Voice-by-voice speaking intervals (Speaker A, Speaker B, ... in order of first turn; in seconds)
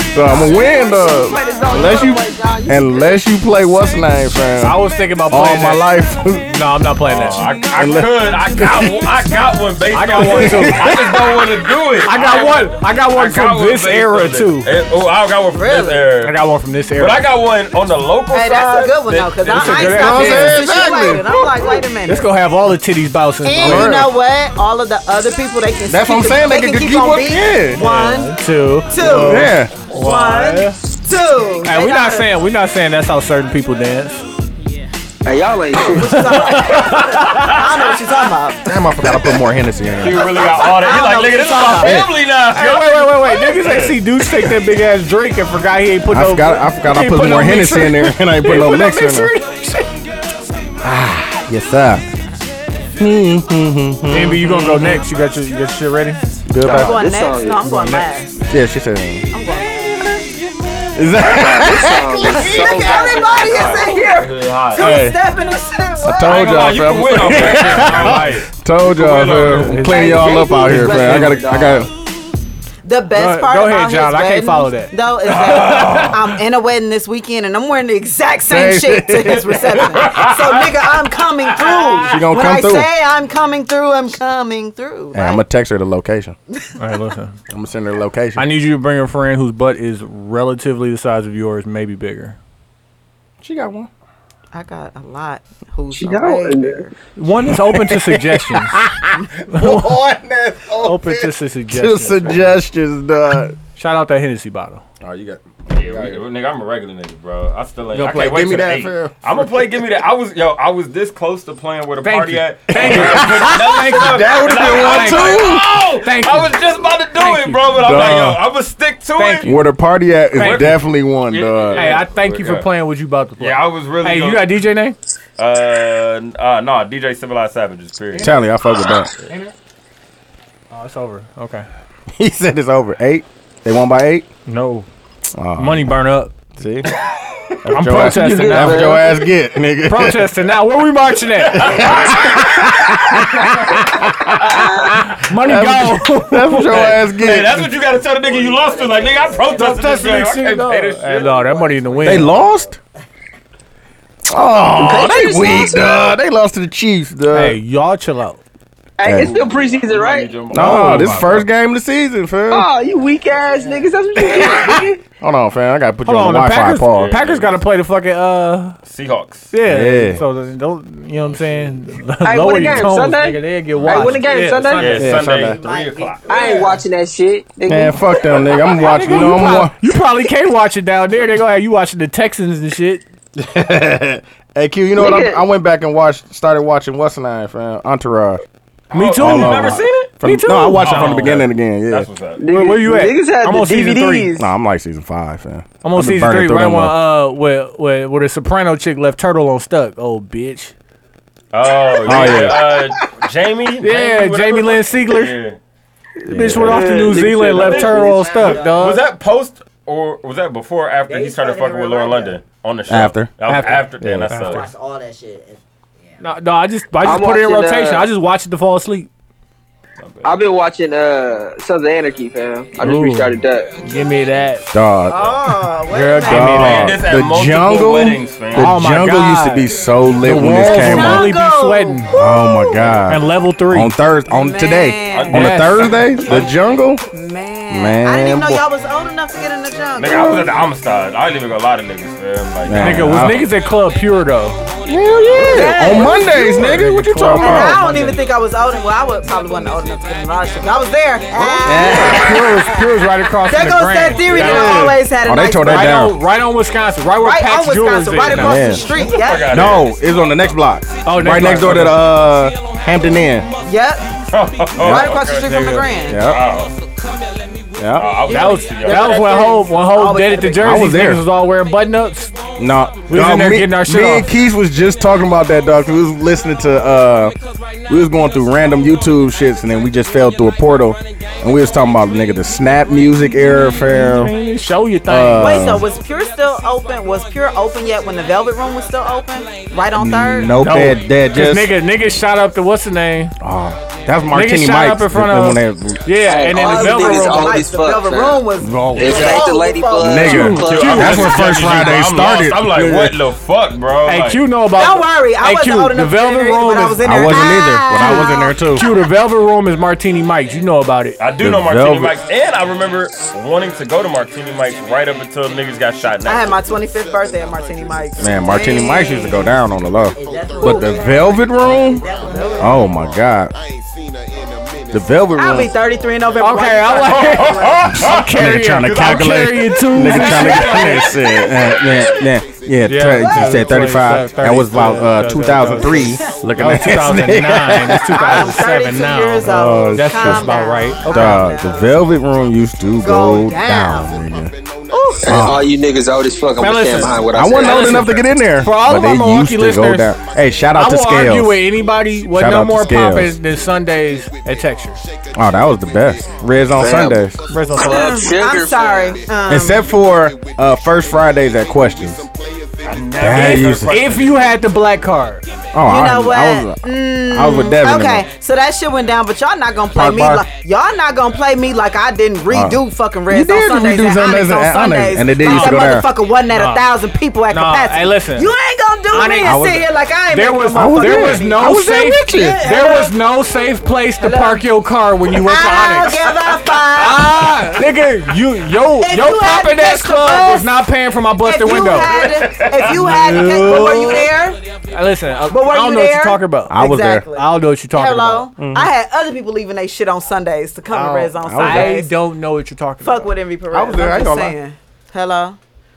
Speaker A: 0.1-6.5, 7.5-9.0, 10.4-11.5, 19.9-21.8, 23.6-24.1, 25.9-27.8, 29.0-29.7, 38.6-40.4, 41.8-42.1, 46.1-49.3, 50.8-52.0, 53.0-55.1, 56.5-57.0, 58.5-59.3, 60.9-62.8, 64.8-65.2, 66.0-71.9, 78.5-79.8, 82.0-82.9, 85.1-86.4, 87.5-88.5, 93.4-93.9, 97.5-103.6, 105.0-106.2, 107.9-109.7, 112.7-115.7, 117.8-118.4, 119.4-122.0, 128.2-129.1, 132.2-134.3, 135.3-135.9, 136.6-136.9, 137.6-140.3, 141.6-147.7, 152.0-152.8, 154.3-157.6, 159.0-159.4, 160.5-162.7, 165.2-167.2, 169.6-170.2, 175.0-175.6, 177.7-179.8, 183.4-188.4, 189.2-192.1, 194.4-197.0, 202.1-202.8, 206.3-206.8, 212.9-213.3, 214.0-214.4, 224.7-225.3, 226.3-231.3, 232.1-237.0, 237.7-238.6, 242.7-243.5, 244.9-247.8, 251.4-252.4, 254.4-256.2, 258.3-258.9, 259.5-263.5, 264.8-265.1, 266.1-266.5, 267.8-268.2, 270.6-271.2, 272.6-277.4, 277.9-284.4, 285.1-285.9, 289.9-291.7, 293.4-296.1, 298.6-299.4, 300.0-303.2, 307.0-308.9, 311.4-312.2, 318.2-322.1, 322.6-323.5, 324.9-325.7, 327.9-338.5, 339.4-340.5, 341.1-344.5, 345.2-345.7, 347.3-351.6, 352.3-353.4, 355.3-357.4, 359.5-362.3, 363.2-363.9, 365.7-368.3, 369.9-370.4, 372.5-376.1, 379.4-379.8, 380.7-382.6, 393.5-394.0, 396.7-397.3, 398.6-398.9, 401.4-402.0, 403.7-404.6
Speaker B: 0.8-3.1, 35.2-36.2, 56.6-58.0, 61.2-64.3, 70.0-71.9, 95.9-96.9, 138.1-139.2, 144.5-144.9, 154.8-156.1, 159.0-160.4, 162.5-165.0, 172.2-175.1, 176.3-178.7, 185.0-185.4, 192.4-194.5, 206.6-208.4, 217.0-218.1, 220.2-223.8, 296.2-298.4, 299.0-301.2, 345.2-348.2, 356.8-359.2
Speaker C: 4.6-5.9, 6.5-7.5, 9.9-10.9, 12.0-14.7, 16.2-17.2, 19.5-20.6, 22.1-24.1, 27.7-30.8, 31.6-34.2, 36.1-37.5, 42.5-49.9, 54.1-56.2, 69.5-70.3, 70.9-71.2, 73.2-74.9, 86.8-87.4, 88.4-92.4, 97.2-98.8, 99.5-100.0, 100.8-102.5, 103.8-104.8, 112.0-116.6, 117.1-118.3, 119.2-119.5, 120.4-120.8, 121.7-125.0, 130.7-131.7, 134.5-134.9, 135.6-136.3, 137.7-139.0, 139.8-142.4, 145.2-147.0, 149.5-152.3, 157.3-158.4, 160.6-161.3, 164.2-164.8, 166.1-168.8, 169.5-175.2, 178.8-183.0, 188.9-191.4, 192.5-194.3, 195.8-200.7, 203.8-205.4, 206.3-209.0, 213.4-214.6, 216.2-219.1, 222.8-224.7, 225.9-227.0, 228.6-229.7, 230.2-232.1, 233.1-233.9, 235.3-235.9, 242.8-244.6, 245.8-248.2, 251.8-255.0, 255.6-259.1, 261.0-262.0, 265.4-265.9, 268.3-272.4, 273.1-274.3, 283.8-285.7, 290.6-293.4, 294.3-297.6, 300.2-302.1, 304.1-307.4, 308.0-311.2, 326.4-331.1, 332.8-341.5, 344.9-345.2, 346.6-350.2, 350.7-355.0, 357.5-358.2, 363.9-365.4, 375.4-375.9, 376.5-376.9, 377.5-378.5, 379.1-386.3, 387.0-394.3, 394.9-396.8, 397.3-398.5, 400.9-403.3
Speaker D: 7.1-16.4, 16.9-20.3, 36.7-38.0, 40.0-44.6, 63.3-65.0, 66.3-69.9, 75.3-76.4, 79.3-80.7, 81.5-82.3, 105.7-119.5, 120.4-120.8, 121.3-122.7, 123.4-124.5, 125.4-128.4, 141.3-142.8, 143.4-143.8, 146.7-152.1, 159.2-161.5, 166.9-167.6, 168.8-169.5, 173.8-176.4, 188.9-190.1, 190.8-192.8, 201.5-205.6, 207.1-214.7, 220.0-220.4, 226.5-228.8, 235.1-236.5, 240.0-243.4, 245.3-245.9, 259.0-259.9, 264.3-266.7, 268.0-269.4, 300.6-304.4, 311.2-316.6, 327.0-329.2, 330.1-331.2, 362.8-364.6, 391.8-392.9
Speaker E: 15.5-16.1, 18.3-22.3, 23.4-28.4, 28.9-32.3, 35.8-38.6, 40.3-42.0, 56.7-58.4, 59.3-60.2, 62.2-66.8, 69.9-70.8, 72.8-85.4, 94.5-96.9, 176.3-176.7, 225.1-226.7, 230.3-233.0, 234.3-235.4, 237.1-240.6, 245.4-252.9, 253.4-256.0, 257.2-259.7, 263.6-264.2, 264.8-266.3, 268.2-270.9, 285.4-290.6, 296.5-300.6, 304.7-308.6, 316.2-319.5, 320.6-321.1, 322.1-322.9, 325.4-327.9, 333.1-333.9, 335.8-336.4, 338.1-341.9, 343.0-344.2, 344.9-345.2, 357.8-359.9, 365.9-381.8, 382.4-383.1, 384.2-384.7, 385.3-387.4, 389.0-390.7, 391.4-394.6, 395.5-402.1, 403.0-405.6
Speaker F: 148.2-149.6, 151.4-152.8, 175.1-176.8, 207.6-209.1, 211.1-212.4, 214.4-216.2, 320.1-322.9